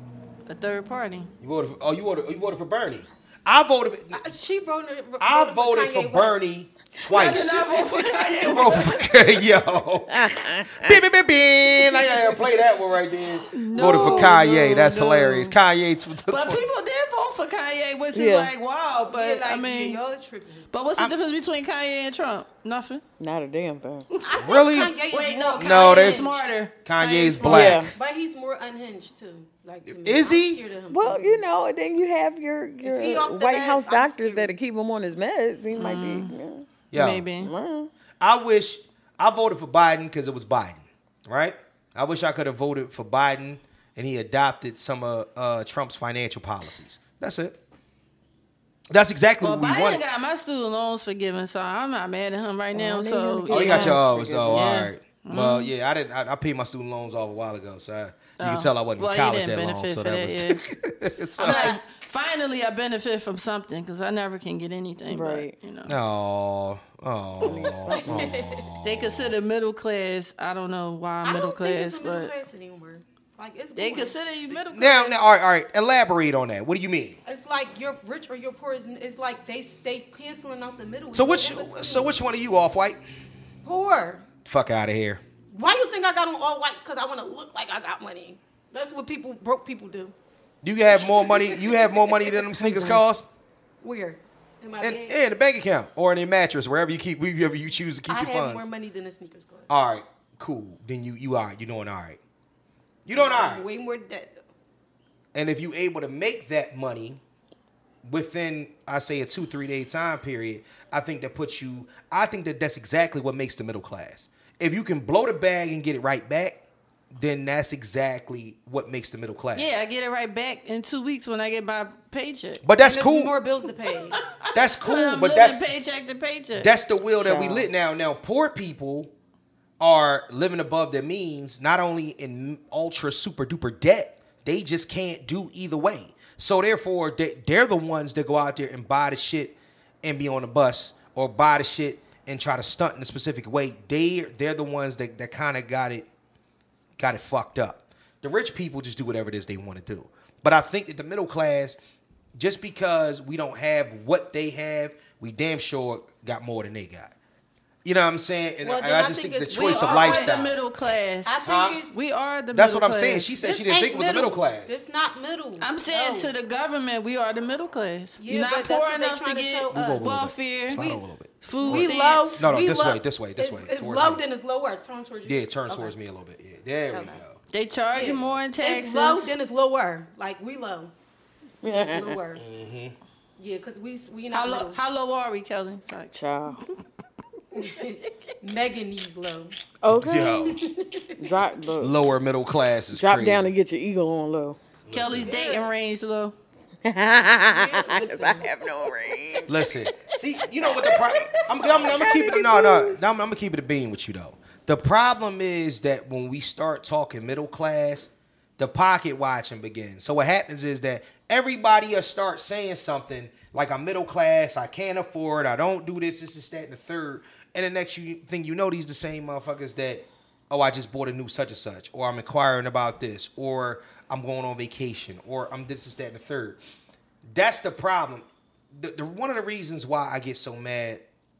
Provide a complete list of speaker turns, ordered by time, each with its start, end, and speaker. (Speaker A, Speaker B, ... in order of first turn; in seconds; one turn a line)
Speaker A: 0.5-1.3
Speaker B: 1.4-4.2
Speaker C: 4.1-6.4
Speaker B: 5.2-7.8
Speaker A: 7.0-9.1
Speaker B: 8.4-16.6
Speaker D: 10.1-11.0
Speaker A: 13.5-15.5
Speaker A: 16.3-20.0
Speaker D: 18.1-18.5
Speaker C: 19.1-20.7
Speaker A: 20.7-23.0
Speaker D: 23.2-24.1
Speaker C: 24.2-26.5
Speaker B: 24.4-25.0
Speaker A: 25.1-27.8
Speaker B: 25.5-26.3
Speaker B: 26.8-27.9
Speaker D: 27.4-27.9
Speaker C: 27.9-31.4
Speaker B: 29.9-30.6
Speaker D: 30.9-36.7
Speaker C: 32.8-34.5
Speaker A: 35.7-36.3
Speaker B: 36.9-37.2
Speaker A: 36.9-37.5
Speaker D: 37.4-37.9
Speaker B: 38.2-47.6
Speaker B: 48.9-50.0
Speaker A: 49.4-55.7
Speaker D: 52.7-54.7
Speaker B: 53.5-61.8
Speaker A: 58.4-60.6
Speaker C: 61.4-61.8
Speaker A: 61.4-66.0
Speaker D: 65.1-65.5
Speaker B: 65.8-69.3
Speaker D: 67.4-68.3
Speaker C: 67.9-68.7
Speaker A: 68.8-72.3
Speaker C: 71.2-74.2
Speaker A: 73.8-75.2
Speaker B: 74.5-77.2
Speaker C: 77.2-82.1
Speaker B: 81.1-83.0
Speaker C: 83.6-84.2
Speaker B: 84.4-85.2
Speaker C: 85.5-90.1
Speaker B: 90.6-93.3
Speaker C: 91.2-91.8
Speaker C: 93.8-95.1
Speaker B: 94.8-98.7
Speaker C: 98.1-99.7
Speaker B: 99.7-102.2
Speaker B: 103.0-103.7
Speaker C: 103.1-104.4
Speaker B: 105.3-107.2
Speaker B: 108.0-116.6
Speaker B: 117.1-119.7
Speaker A: 119.5-122.6
Speaker B: 122.6-123.3
Speaker C: 122.8-124.2
Speaker A: 124.2-126.7
Speaker B: 124.5-125.7
Speaker B: 126.5-129.1
Speaker D: 127.2-127.7
Speaker B: 129.8-146.1
Speaker B: 147.0-151.8
Speaker B: 152.3-157.1
Speaker B: 157.8-160.6
Speaker C: 158.6-160.3
Speaker A: 159.5-163.3
Speaker C: 161.2-161.9
Speaker B: 161.4-161.8
Speaker B: 162.5-164.8
Speaker C: 163.4-166.3
Speaker A: 165.6-172.5
Speaker C: 168.2-170.1
Speaker B: 169.7-174.2
Speaker C: 171.6-175.9
Speaker B: 175.2-177.4
Speaker C: 176.9-177.2
Speaker A: 177.5-179.4
Speaker C: 177.9-180.9
Speaker D: 181.6-182.2
Speaker C: 181.6-182.4
Speaker B: 182.3-182.9
Speaker C: 183.4-184.8
Speaker A: 184.3-186.7
Speaker D: 186.1-186.6
Speaker C: 187.5-189.6
Speaker D: 189.8-190.5
Speaker B: 189.8-190.6
Speaker C: 190.4-191.2
Speaker D: 191.2-191.9
Speaker B: 191.8-193.5
Speaker D: 192.9-194.6
Speaker B: 194.8-195.3
Speaker A: 194.9-196.3
Speaker C: 195.2-195.7
Speaker D: 196.8-203.0
Speaker C: 197.4-198.5
Speaker B: 199.5-226.6
Speaker B: 227.3-231.0